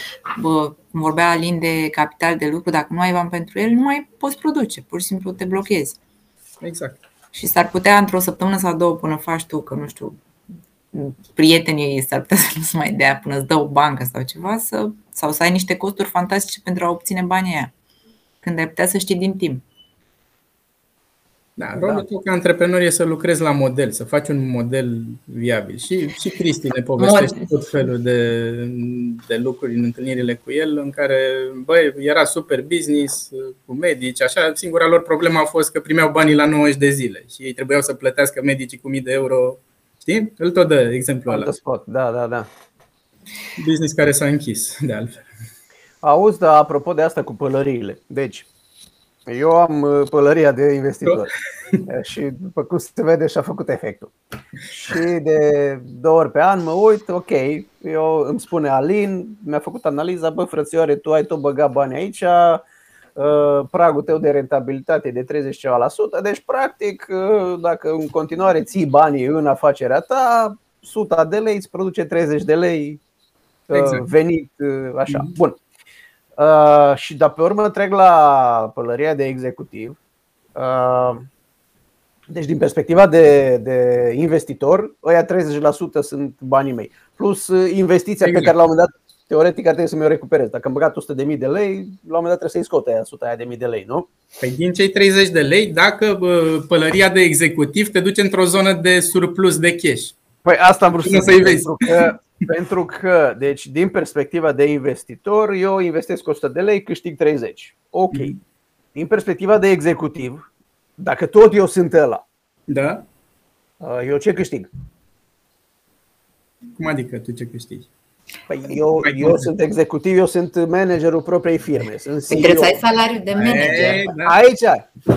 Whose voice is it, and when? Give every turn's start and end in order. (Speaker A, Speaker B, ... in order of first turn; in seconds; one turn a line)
Speaker A: 0.3-6.0
Speaker B: 6.6-7.0
Speaker A: 7.3-10.2
Speaker A: 10.9-17.7
Speaker A: 18.4-19.6
Speaker B: 21.6-41.5
Speaker C: 21.8-22.0
Speaker A: 27.0-27.5
Speaker C: 41.3-42.5
Speaker B: 43.6-45.3
Speaker C: 46.0-48.5
Speaker C: 49.3-51.3
Speaker B: 51.1-51.8
Speaker C: 51.9-54.1
Speaker C: 54.7-62.6
Speaker C: 63.2-73.0
Speaker C: 73.7-75.6
Speaker B: 73.7-74.1
Speaker B: 75.1-75.3
Speaker C: 76.4-80.0
Speaker C: 80.6-81.3
Speaker C: 82.3-94.1
Speaker B: 88.2-88.5
Speaker B: 94.4-100.2
Speaker C: 100.4-108.3
Speaker B: 101.0-102.1
Speaker B: 108.1-108.4
Speaker C: 109.0-110.5
Speaker C: 111.0-112.2
Speaker B: 112.7-113.1
Speaker C: 113.8-114.7
Speaker B: 116.8-117.9
Speaker C: 118.5-122.8
Speaker B: 119.0-119.5
Speaker A: 122.3-124.0
Speaker B: 123.4-124.4
Speaker C: 123.5-124.9